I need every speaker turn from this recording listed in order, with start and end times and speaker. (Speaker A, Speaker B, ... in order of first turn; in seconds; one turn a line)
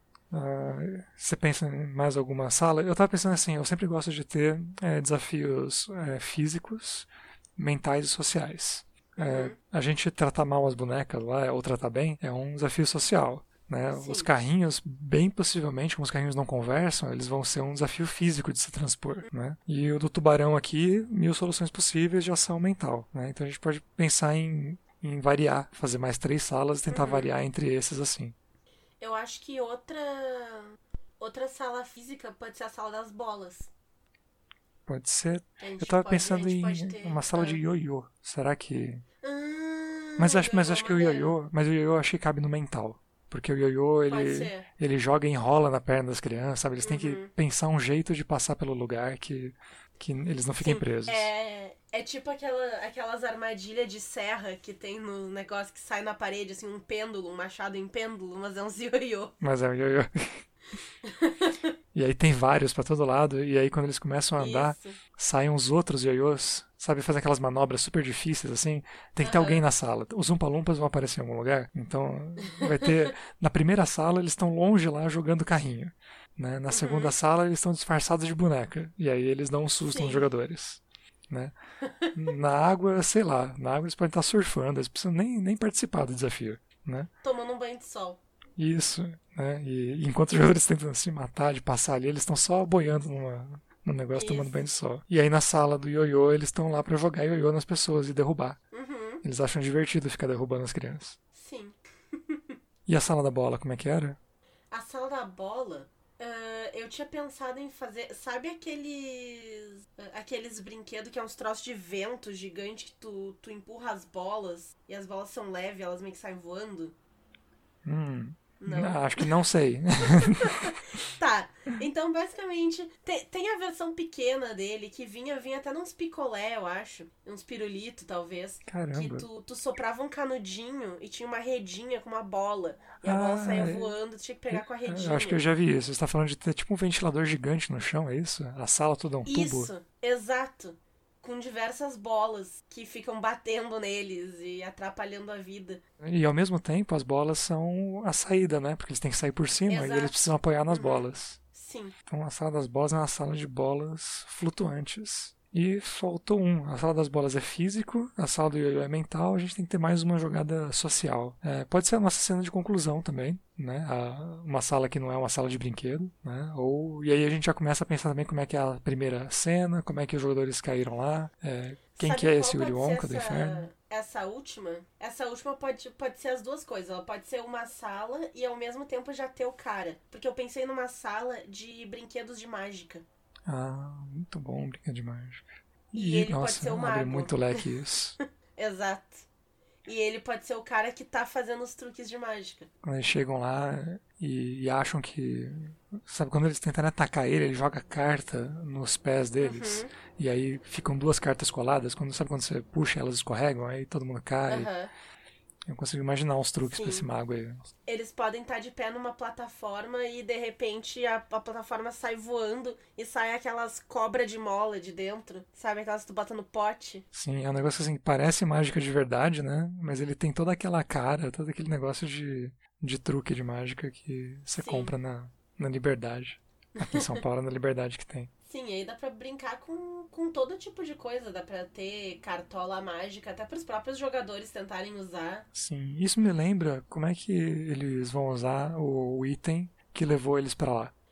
Speaker A: 0.3-28.3
Speaker B: 9.2-9.5
Speaker B: 13.9-14.3
Speaker B: 26.9-27.3
Speaker B: 29.0-33.7
Speaker A: 34.9-39.0
Speaker B: 35.6-37.6
Speaker B: 39.2-41.3
Speaker A: 40.2-51.3
Speaker B: 44.1-44.7
Speaker B: 46.8-47.3
Speaker B: 50.6-59.4
Speaker A: 59.4-60.4
Speaker B: 61.0-61.7
Speaker A: 61.9-81.5
Speaker B: 64.4-65.0
Speaker B: 69.2-69.6
Speaker B: 72.5-72.9
Speaker B: 76.7-77.1
Speaker B: 79.8-80.3
Speaker B: 81.8-82.1
Speaker A: 82.1-87.1
Speaker B: 87.2-88.2
Speaker A: 88.6-98.6
Speaker B: 94.2-94.6
Speaker B: 98.7-99.2
Speaker A: 99.2-101.2
Speaker B: 101.3-102.5
Speaker A: 102.8-104.2
Speaker B: 104.7-116.9
Speaker A: 117.8-120.7
Speaker B: 118.6-119.3
Speaker B: 120.0-135.4
Speaker A: 128.7-129.3
Speaker A: 133.0-133.9
Speaker A: 134.5-139.7
Speaker B: 139.2-145.8
Speaker A: 146.0-151.4
Speaker B: 149.7-151.9
Speaker A: 152.1-173.7
Speaker B: 172.0-183.0
Speaker A: 183.4-188.2
Speaker B: 185.9-187.6
Speaker B: 188.6-189.2
Speaker B: 189.8-192.7
Speaker A: 192.8-204.7
Speaker B: 199.4-199.9
Speaker B: 204.5-204.9
Speaker A: 205.7-207.6
Speaker B: 206.6-207.1
Speaker B: 207.8-217.0
Speaker A: 217.1-228.3
Speaker B: 224.6-224.9
Speaker B: 226.8-227.2
Speaker B: 228.5-235.4
Speaker A: 235.5-240.9